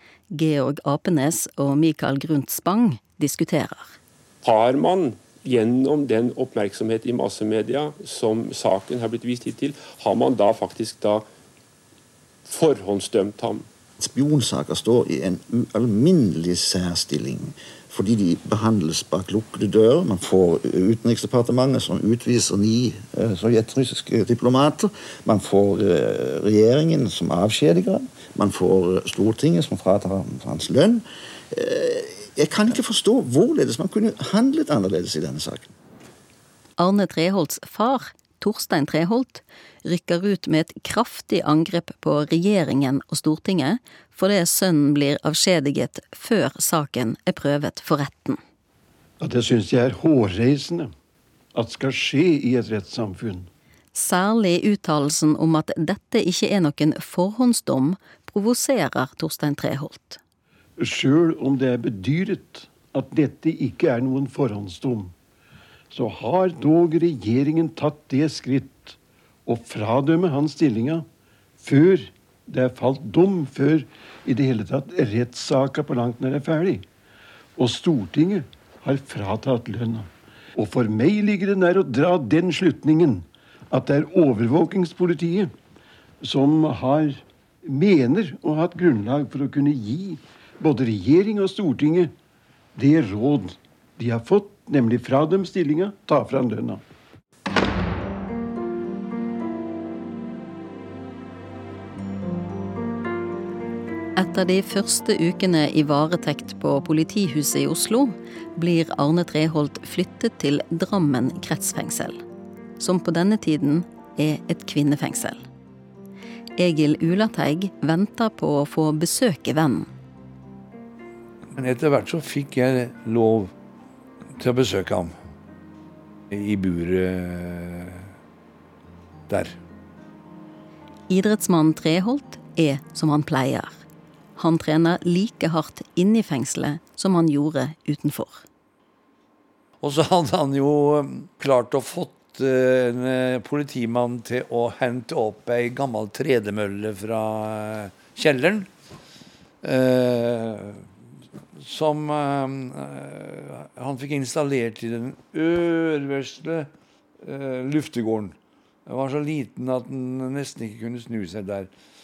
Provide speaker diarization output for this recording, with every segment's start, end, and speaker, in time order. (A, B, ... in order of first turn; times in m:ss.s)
0:00.3-0:04.0 A
0:04.4-0:11.3 B
0:12.5-0:13.7 B
0:14.0-0:35.7 C
0:36.8-0:48.4 A
0:49.2-0:50.9 D
0:51.6-0:53.5 D
0:53.9-1:00.2 A
1:00.8-1:05.1 D
1:05.9-1:11.1 D
1:11.6-1:16.8 D
1:17.6-1:25.5 D
1:26.2-1:32.1 D
1:32.8-1:36.8 D
1:44.2-1:52.2 A
1:52.8-1:55.4 A
1:56.6-1:59.9 A
2:01.6-2:03.5 E
2:04.4-2:05.1 E
2:06.3-2:08.1 E
2:09.3-2:09.6 E
2:11.1-2:13.8 A
2:14.4-2:18.4 A
2:19.8-2:28.7 E
2:29.6-2:30.8 E
2:31.6-2:36.7 E
2:37.2-2:38.4 E
2:38.9-2:41.7 E